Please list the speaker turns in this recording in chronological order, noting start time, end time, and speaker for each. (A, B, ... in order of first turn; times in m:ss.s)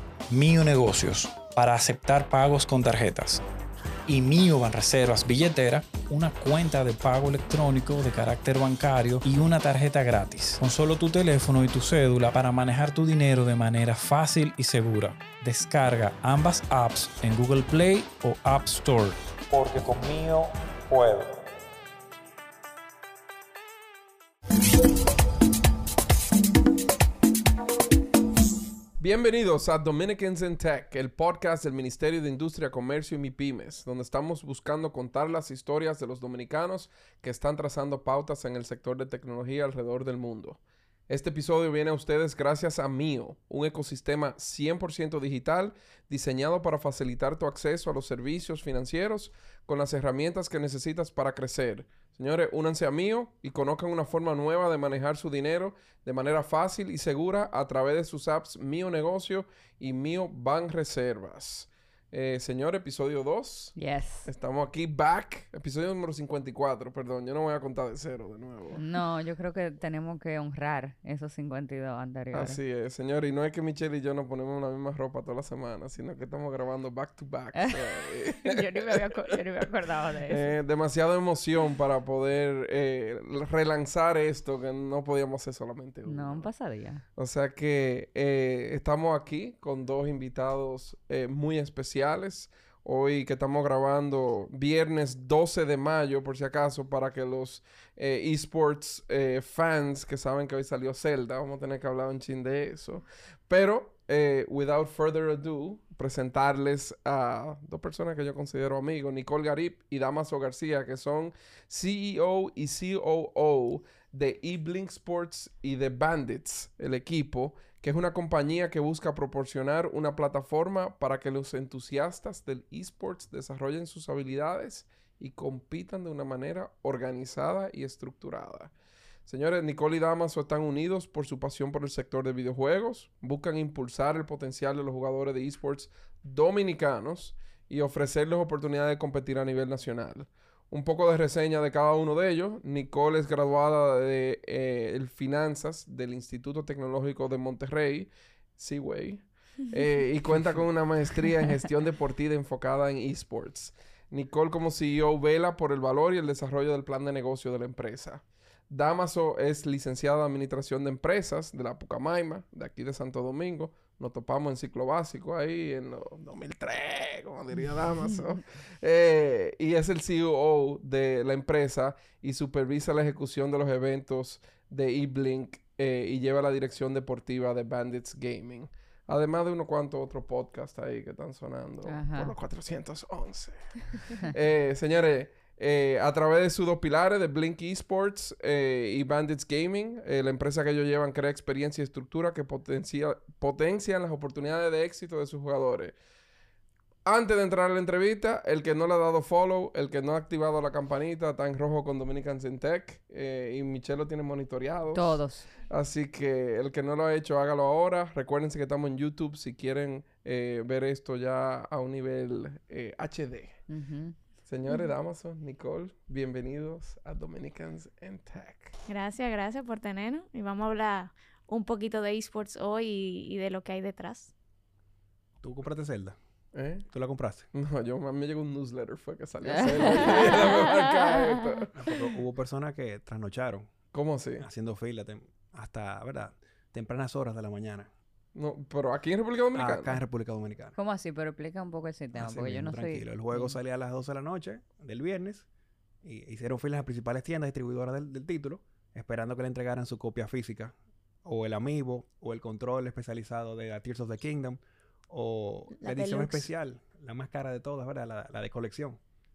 0:00.3-0:03.4 A
0:04.1-0:21.3 A
0:29.0-1:03.7 B
1:03.7-1:04.3 C
1:04.2-1:08.8 B
1:08.8-1:12.6 C
1:12.3-1:19.0 B
1:17.5-1:20.5 C
1:20.3-1:26.5 B
1:26.0-1:27.0 C
1:27.2-2:08.7 B
2:09.2-3:15.9 B
3:01.9-3:02.3 C
3:17.0-3:33.6 B
3:24.9-3:25.5 C
3:33.7-3:34.1 C
3:34.4-3:38.8 B
3:38.9-3:44.3 D
3:45.4-3:46.2 E
3:46.5-3:46.8 B
3:46.9-3:47.5 E
3:47.5-3:51.7 B
3:49.4-3:50.4 C
3:50.3-3:51.1 D
3:51.7-3:53.7 E
3:53.9-3:54.5 B
3:54.4-3:57.9 E
3:58.3-4:00.0 B
3:59.5-4:00.7 E
4:00.8-4:03.6 C
4:02.1-4:05.4 E
4:06.0-4:10.7 E
4:11.2-4:19.0 E
4:15.8-4:16.4 D